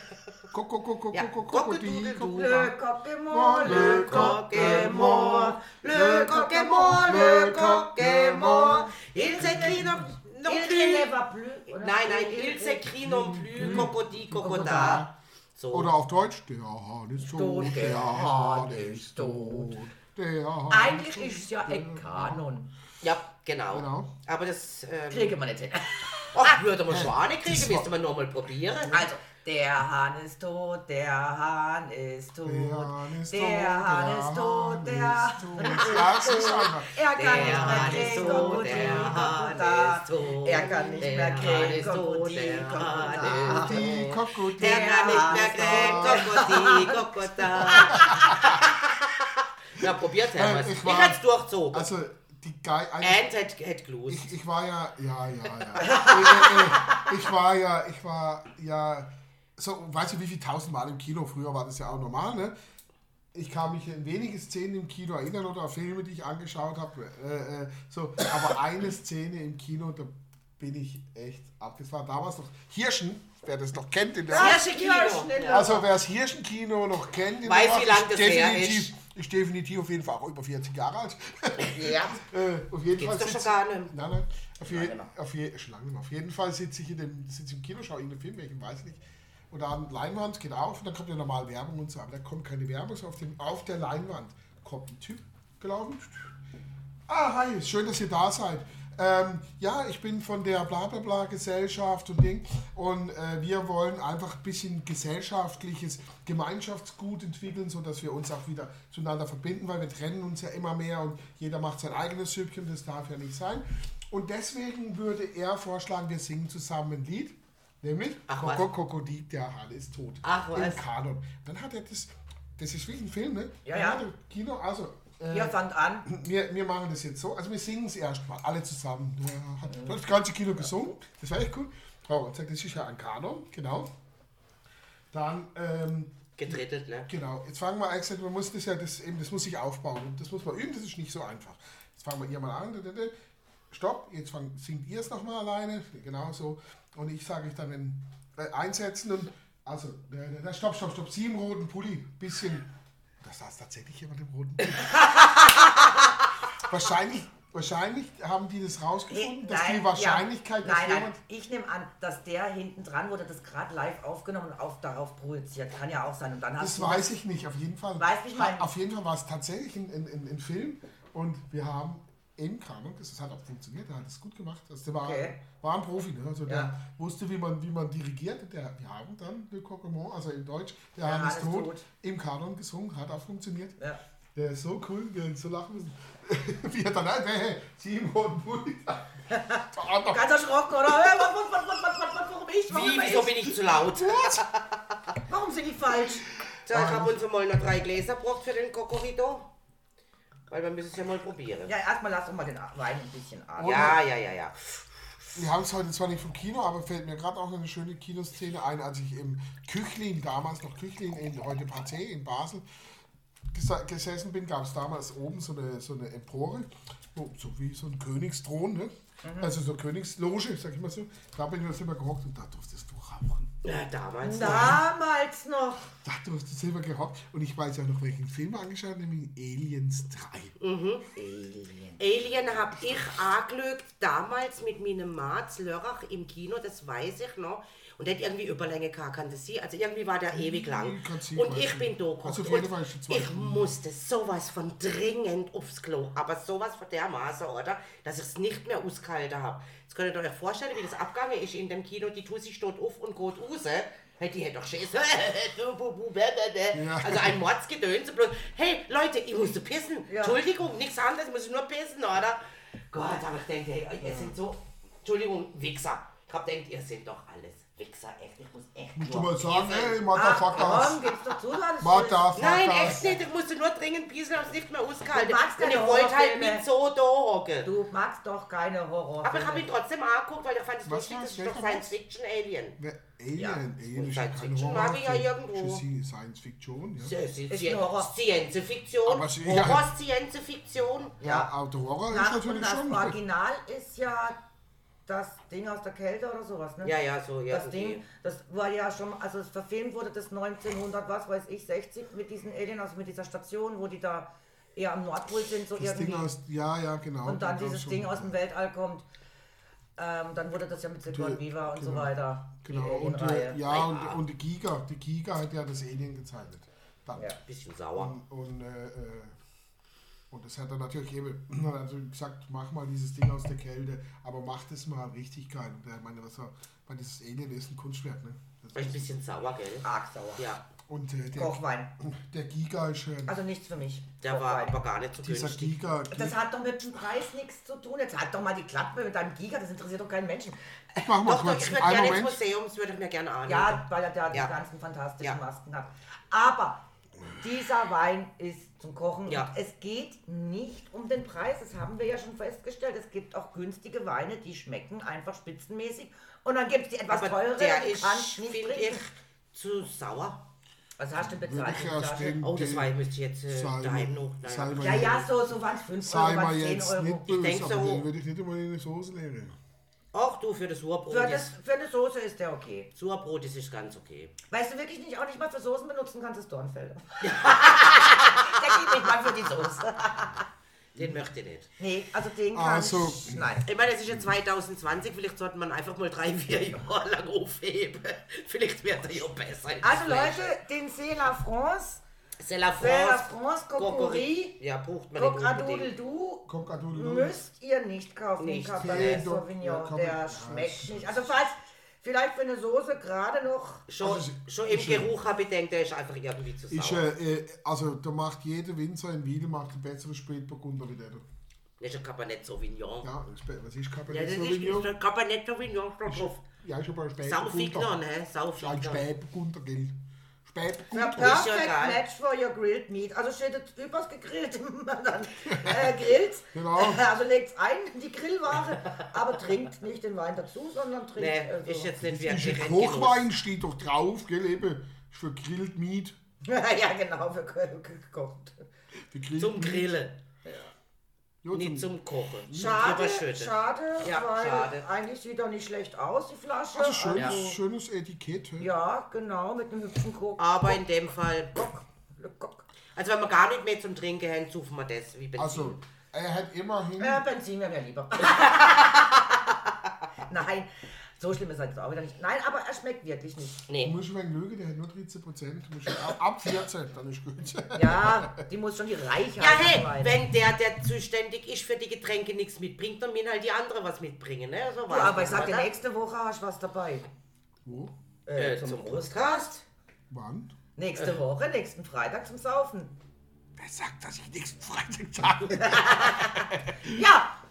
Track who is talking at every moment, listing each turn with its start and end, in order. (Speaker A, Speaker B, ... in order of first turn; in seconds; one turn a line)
Speaker A: 0.5-2.7
Speaker B: 1.1-2.4
Speaker C: 2.2-7.3
Speaker A: 3.3-10.0
Speaker B: 3.6-11.1
Speaker C: 8.9-12.9
Speaker B: 11.7-15.9
Speaker A: 13.0-15.1
Speaker C: 13.5-15.1
Speaker A: 15.7-22.4
Speaker C: 17.2-19.8
Speaker C: 20.7-22.7
Speaker B: 23.0-25.4
Speaker A: 23.7-24.1
Speaker C: 25.1-26.6
Speaker B: 26.3-29.1
Speaker A: 26.9-27.9
Speaker C: 28.9-48.3
Speaker A: 32.4-39.2
Speaker B: 37.1-51.9
Speaker A: 40.6-41.4
Speaker A: 43.2-46.6
Speaker A: 47.7-48.6
Speaker A: 49.8-53.2
Speaker B: 53.0-54.3
Speaker A: 54.1-62.5
Speaker C: 55.8-57.1
Speaker A: 63.3-74.7
Speaker C: 74.3-75.8
Speaker B: 74.3-75.7
Speaker A: 75.5-96.3
Speaker B: 77.4-78.9
Speaker C: 81.6-82.2
Speaker B: 82.9-83.9
Speaker C: 84.6-85.1
Speaker A: 97.1-133.9
Speaker B: 118.3-118.6
Speaker B: 120.2-120.8
Speaker C: 123.6-124.0
Speaker C: 125.3-126.1
Speaker C: 129.7-129.9
Speaker A: 135.1-143.1
Speaker B: 136.4-137.1
Speaker A: 143.7-152.7
Speaker A: 153.2-155.0
Speaker A: 156.6-161.2
Speaker C: 159.1-167.2
Speaker A: 166.6-183.8
Speaker C: 168.0-168.7
Speaker C: 175.0-175.4
Speaker C: 176.5-176.7
Speaker C: 181.0-181.8
Speaker A: 184.3-190.3
Speaker C: 189.3-193.4
Speaker B: 192.7-195.0
Speaker A: 193.6-194.4
Speaker C: 195.3-196.3
Speaker B: 196.7-199.5
Speaker A: 196.7-197.2
Speaker B: 200.5-201.7
Speaker C: 201.7-204.0
Speaker A: 203.6-204.0
Speaker B: 203.6-204.5
Speaker A: 205.3-212.6
Speaker A: 213.5-223.5
Speaker C: 219.2-219.5
Speaker B: 223.6-224.8
Speaker C: 224.2-225.9
Speaker A: 224.4-224.8
Speaker A: 226.0-230.6
Speaker B: 230.6-231.1
Speaker C: 231.2-232.0
Speaker B: 232.0-271.0
Speaker A: 240.3-243.8
Speaker A: 256.7-257.4
Speaker C: 260.1-260.4
Speaker A: 268.9-271.0
Speaker C: 270.1-272.3
Speaker A: 271.8-273.2
Speaker B: 272.4-277.7
Speaker C: 275.1-276.6
Speaker C: 277.6-279.7
Speaker B: 279.2-282.8
Speaker A: 280.9-282.0
Speaker A: 282.8-287.1
Speaker B: 283.4-285.8
Speaker B: 287.0-291.2
Speaker C: 287.5-288.1
Speaker A: 289.1-289.9
Speaker C: 291.2-291.5
Speaker A: 291.2-293.2
Speaker C: 292.1-294.4
Speaker C: 295.1-296.9
Speaker B: 296.8-298.0
Speaker C: 297.5-306.3
Speaker A: 305.7-308.3
Speaker C: 307.2-309.0
Speaker C: 310.0-313.6
Speaker A: 311.1-317.3
Speaker B: 313.6-314.2
Speaker B: 317.4-318.1
Speaker A: 317.9-319.4
Speaker A: 320.3-329.1
Speaker B: 328.7-329.9
Speaker C: 329.8-330.5
Speaker B: 330.4-330.6
Speaker A: 330.9-333.4
Speaker C: 331.3-331.9
Speaker C: 333.3-334.8
Speaker B: 334.2-335.8
Speaker A: 335.2-336.4
Speaker C: 336.1-341.0
Speaker A: 341.0-342.4
Speaker B: 341.2-344.5
Speaker C: 343.5-346.8
Speaker C: 347.4-359.0
Speaker B: 357.1-360.4
Speaker C: 361.0-362.4
Speaker A: 361.2-362.9
Speaker B: 362.4-365.3
Speaker A: 363.5-365.2
Speaker C: 364.8-367.4
Speaker A: 366.0-369.6
Speaker B: 367.3-368.1
Speaker B: 370.1-371.5
Speaker C: 371.1-372.9
Speaker B: 372.9-374.3
Speaker C: 374.5-380.4
Speaker B: 377.2-378.4
Speaker B: 380.9-381.7
Speaker C: 381.8-383.6
Speaker A: 382.5-383.6
Speaker B: 383.6-390.5
Speaker C: 389.8-392.0
Speaker B: 392.4-395.9
Speaker C: 392.8-394.6
Speaker C: 395.1-403.9
Speaker A: 396.5-397.4
Speaker B: 398.4-399.2
Speaker A: 398.8-401.3
Speaker B: 403.9-407.0
Speaker A: 404.0-405.1
Speaker A: 406.7-411.2
Speaker B: 411.8-413.1
Speaker A: 413.0-414.9
Speaker B: 414.1-416.4
Speaker A: 416.1-417.9
Speaker B: 417.2-419.0
Speaker A: 418.6-421.4
Speaker C: 420.9-432.0
Speaker B: 420.9-422.0
Speaker A: 425.5-426.0
Speaker A: 426.5-427.0
Speaker B: 431.2-433.3
Speaker A: 432.0-436.2
Speaker C: 436.4-438.6
Speaker A: 439.1-439.9
Speaker B: 439.4-440.2
Speaker A: 441.4-441.9
Speaker B: 441.5-444.9
Speaker A: 442.4-442.9
Speaker C: 442.5-447.6
Speaker A: 446.7-448.7
Speaker B: 447.1-447.4
Speaker C: 448.6-450.8
Speaker B: 450.4-451.7
Speaker C: 451.6-452.6
Speaker B: 452.9-455.8
Speaker A: 455.4-457.2
Speaker C: 457.0-459.2
Speaker C: 460.2-463.6
Speaker B: 463.7-463.9
Speaker A: 463.8-468.4
Speaker C: 467.7-470.2
Speaker B: 469.4-475.7
Speaker C: 474.9-477.1
Speaker A: 477.6-477.9
Speaker C: 478.2-479.5
Speaker B: 478.4-479.6
Speaker A: 480.1-480.5
Speaker C: 480.8-482.9
Speaker A: 483.6-487.0
Speaker C: 485.6-487.3